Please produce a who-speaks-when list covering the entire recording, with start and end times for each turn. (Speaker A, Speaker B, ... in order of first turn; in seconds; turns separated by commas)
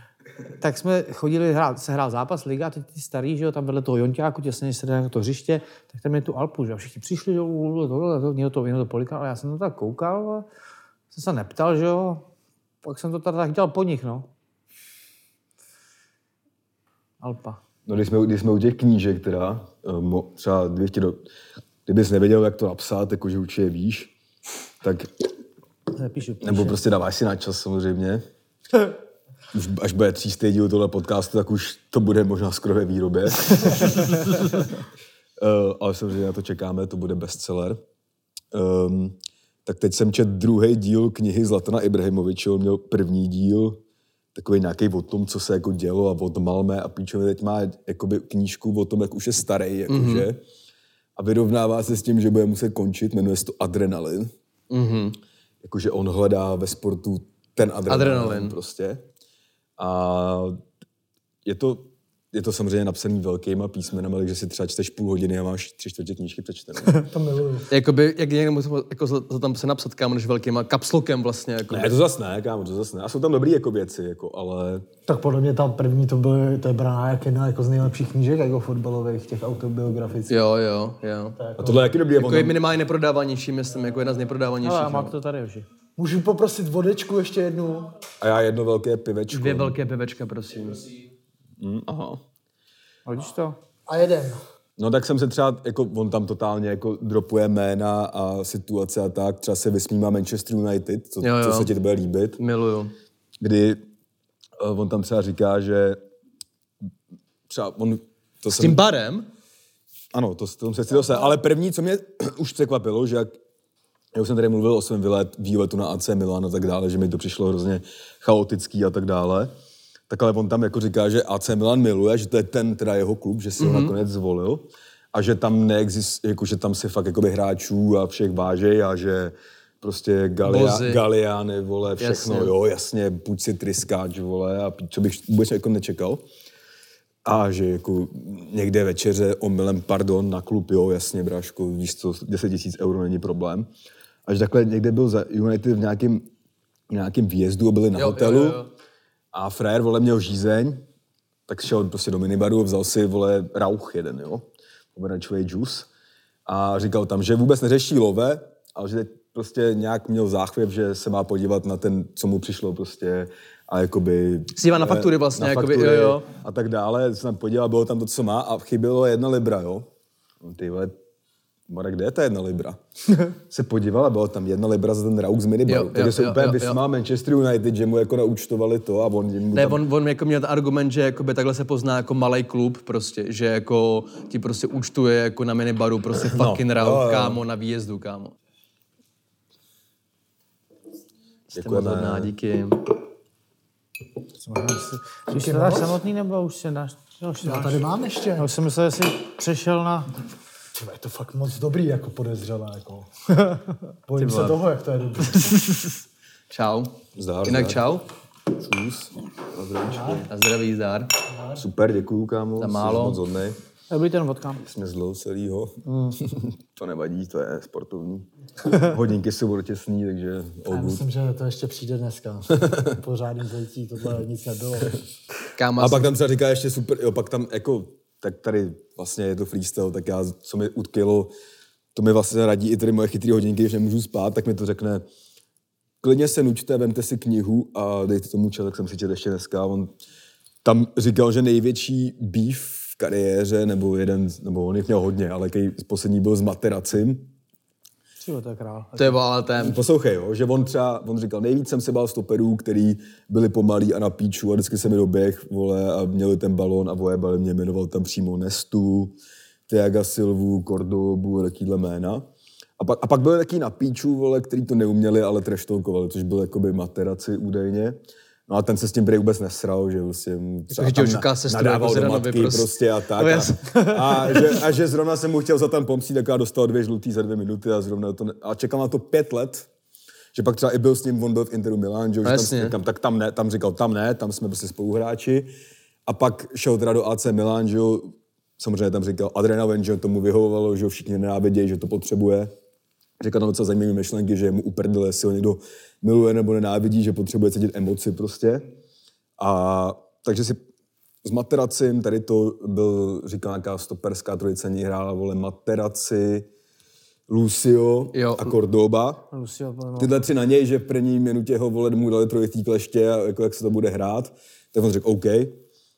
Speaker A: 0.6-10.4, Speaker A: 11.1-12.2, Speaker A: 12.8-14.3, Speaker A: 17.2-17.6, Speaker B: 17.9-21.2, Speaker B: 21.9-24.1, Speaker B: 24.8-25.1, Speaker A: 25.9-26.8, Speaker B: 26.4-28.2, Speaker B: 29.5-34.0, Speaker B: 35.4-37.8, Speaker B: 38.5-43.8, Speaker B: 44.3-50.4, Speaker C: 49.9-50.3, Speaker B: 51.2-54.3, Speaker C: 54.7-55.2, Speaker B: 55.6-59.1, Speaker C: 57.9-58.6, Speaker B: 59.8-60.6, Speaker B: 61.5-67.1, Speaker D: 67.0-67.7, Speaker C: 67.7-71.9, Speaker B: 71.7-74.9, Speaker D: 75.1-80.4, Speaker C: 80.3-81.4, Speaker D: 81.4-81.9, Speaker B: 81.6-82.6, Speaker C: 82.2-85.2, Speaker A: 84.6-85.7, Speaker D: 86.0-87.9, Speaker B: 88.2-89.8, Speaker C: 89.3-90.9, Speaker B: 91.6-92.2, Speaker A: 93.1-93.6, Speaker D: 93.9-94.4, Speaker B: 94.8-102.4, Speaker C: 101.2-101.7, Speaker C: 102.4-102.9, Speaker B: 103.4-103.8, Speaker B: 104.6-106.0, Speaker B: 107.5-108.8, Speaker C: 108.5-109.3, Speaker B: 110.1-113.4, Speaker B: 114.1-119.5, Speaker B: 120.1-136.2, Speaker C: 123.6-123.9, Speaker C: 130.4-131.0, Speaker C: 132.0-132.5, Speaker B: 137.2-143.7, Speaker B: 144.3-146.3, Speaker B: 146.9-148.6, Speaker C: 147.9-148.7, Speaker B: 149.3-150.8, Speaker B: 151.5-155.9, Speaker B: 156.5-169.9, Speaker C: 164.6-166.3, Speaker B: 170.4-171.0, Speaker B: 171.7-179.8, Speaker C: 175.7-176.8, Speaker C: 179.6-188.3, Speaker B: 186.3-187.4, Speaker C: 191.5-192.9, Speaker B: 191.5-192.3, Speaker A: 194.4-197.8, Speaker D: 195.3-196.0, Speaker D: 197.4-198.5, Speaker A: 198.4-200.1, Speaker D: 200.8-203.1, Speaker D: 204.1-205.5, Speaker C: 204.2-204.6, Speaker C: 205.4-205.8, Speaker C: 206.5-208.1, Speaker B: 207.2-208.0, Speaker B: 208.5-210.2, Speaker D: 209.9-210.3, Speaker C: 209.9-211.1, Speaker D: 211.3-211.6, Speaker B: 211.6-213.6, Speaker C: 212.6-213.2, Speaker A: 213.9-214.6, Speaker B: 214.6-221.0, Speaker A: 215.9-216.2, Speaker D: 220.7-225.0, Speaker B: 222.6-223.0, Speaker C: 225.6-226.1, Speaker B: 225.8-231.3, Speaker B: 231.9-235.1, Speaker B: 236.0-239.9, Speaker B: 240.6-247.3, Speaker A: 248.2-249.2, Speaker C: 249.0-249.8, Speaker B: 249.6-259.2, Speaker B: 259.7-262.2, Speaker B: 262.8-279.7, Speaker C: 270.7-273.9, Speaker A: 274.1-274.4, Speaker B: 280.3-285.5, Speaker C: 282.2-282.8, Speaker B: 286.1-292.5, Speaker B: 293.2-298.7, Speaker B: 299.4-300.6, Speaker B: 301.2-306.5, Speaker B: 307.3-309.3, Speaker C: 308.1-308.5, Speaker A: 309.3-310.1, Speaker B: 310.0-315.6